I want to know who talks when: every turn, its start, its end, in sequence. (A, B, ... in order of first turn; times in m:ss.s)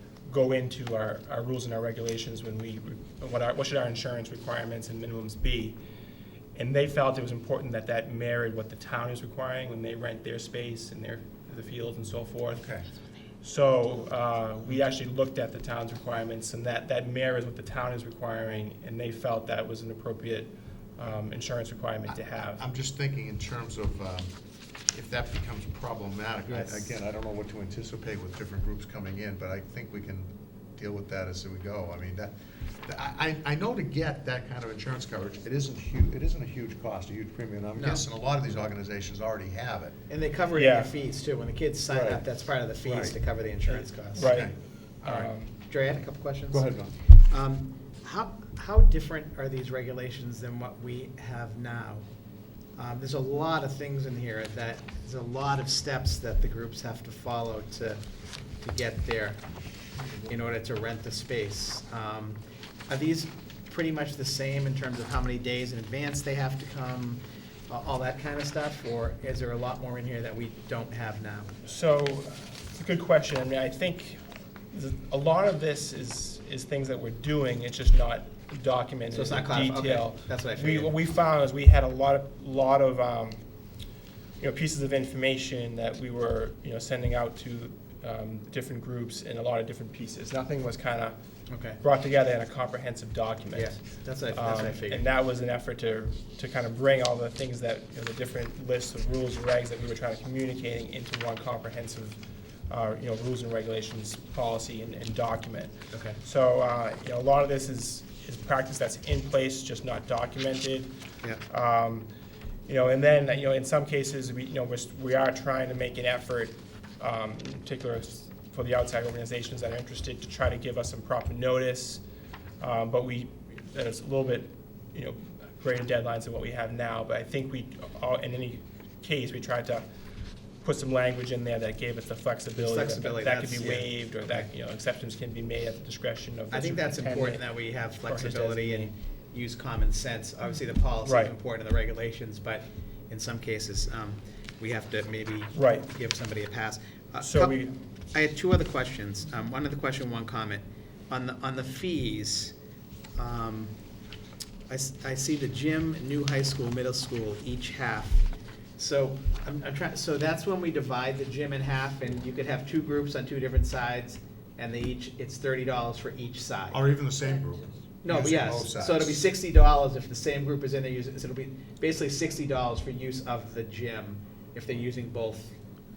0:00.3-0:05.8 A
0:06.6-0:12.6 A
0:12.6-0:12.9 B
0:13.4-0:22.6 A
0:22.1-0:24.3 B
0:24.9-0:40.0 B
0:26.5-0:26.9 C
0:37.8-0:38.0 C
0:40.1-0:44.4 C
0:40.6-0:40.9 A
0:41.9-0:42.2 B
0:42.8-0:43.2 B
0:43.7-0:45.5 A
0:44.3-0:44.5 B
0:45.0-0:52.1 C
0:46.5-0:46.9 B
0:52.8-0:58.0 C
0:58.6-0:59.4 C
1:00.3-1:11.6 C
1:11.6-1:23.4 A
1:19.1-1:21.0 C
1:24.4-1:31.2 A
1:31.5-1:31.8 C
1:31.8-1:51.0 A
1:33.5-1:35.0 C
1:45.9-1:46.2 C
1:51.5-1:52.1 A
1:52.7-2:02.0 A
2:02.6-2:09.9 A
2:10.6-2:18.9 A
2:12.6-2:14.5 C
2:16.5-2:32.5 C
2:21.0-2:21.3 A
2:25.5-2:25.9 A
2:27.2-2:27.7 A
2:33.2-2:33.8 C
2:34.7-2:46.8 C
2:46.7-2:49.3 B
2:48.0-2:55.6 C